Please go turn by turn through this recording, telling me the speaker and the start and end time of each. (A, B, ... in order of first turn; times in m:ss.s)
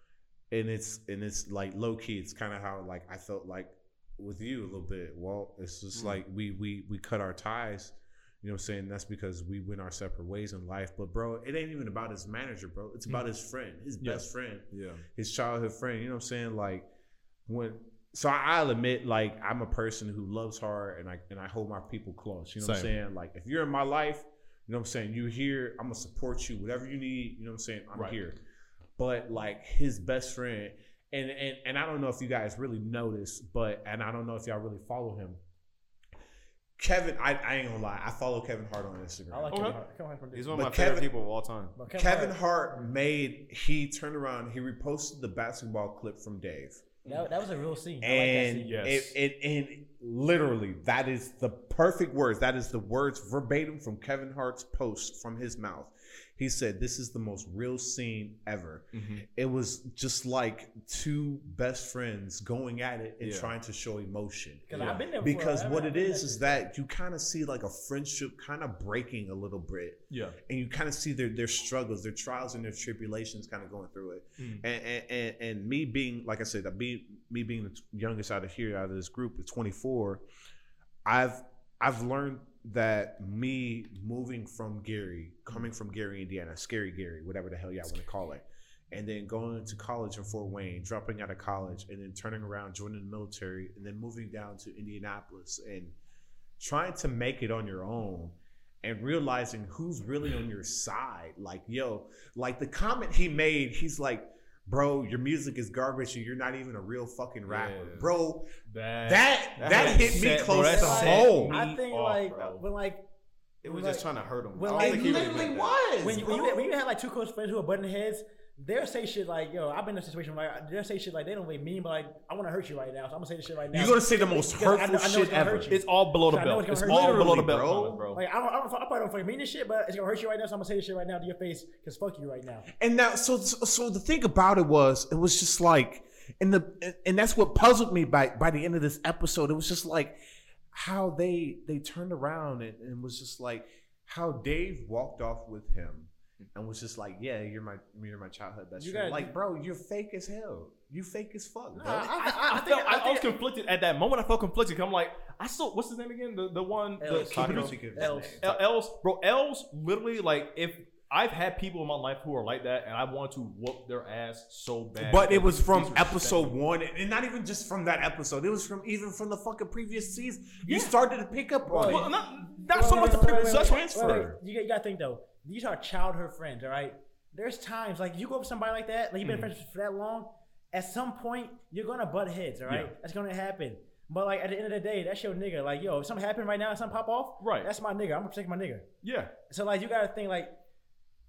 0:00.5-0:16.9 A
0:14.7-0:15.0 B
0:17.5-0:28.4 A
0:22.6-0:22.9 C
0:29.0-0:35.4 A
0:36.8-0:39.8 A
0:39.3-0:40.6 D
0:39.5-0:39.8 C
0:40.3-0:41.7 B
0:40.5-0:41.1 A
0:41.8-0:42.4 D
0:41.9-0:47.0 A
0:47.1-0:48.7 D
0:48.0-1:20.2 A
0:48.6-0:49.2 C
0:58.9-0:59.2 C
1:03.2-1:03.5 B
1:04.7-1:06.6 D
1:10.1-1:10.4 C
1:14.4-1:14.6 C
1:21.0-1:35.9 A
1:36.6-1:48.5 A
1:47.5-1:48.1 B
1:48.7-1:52.6 C
1:49.0-1:51.6 A
1:49.6-1:50.4 B
1:50.5-1:53.1 D
1:53.6-1:55.8 B
1:53.6-2:07.4 D
1:54.7-1:56.7 A
2:03.7-2:05.7 A
2:05.7-2:08.2 C
2:06.8-2:08.0 A
2:08.1-2:12.7 D
2:12.8-2:20.2 A
2:20.7-2:32.1 A
2:28.8-2:29.4 D
2:31.7-2:33.3 D
2:32.2-2:46.6 C
2:37.0-2:38.5 D
2:37.1-2:38.6 A
2:37.4-2:37.7 B
2:45.0-2:52.1 A
2:50.6-2:50.9 C
2:51.6-2:52.1 D
2:51.9-2:54.4 C
2:52.7-3:08.9 D
2:53.5-2:54.3 A
2:59.2-2:59.5 C
3:02.6-3:02.9 C
3:07.4-3:07.7 C
3:09.0-3:09.3 C
3:09.5-3:10.6 D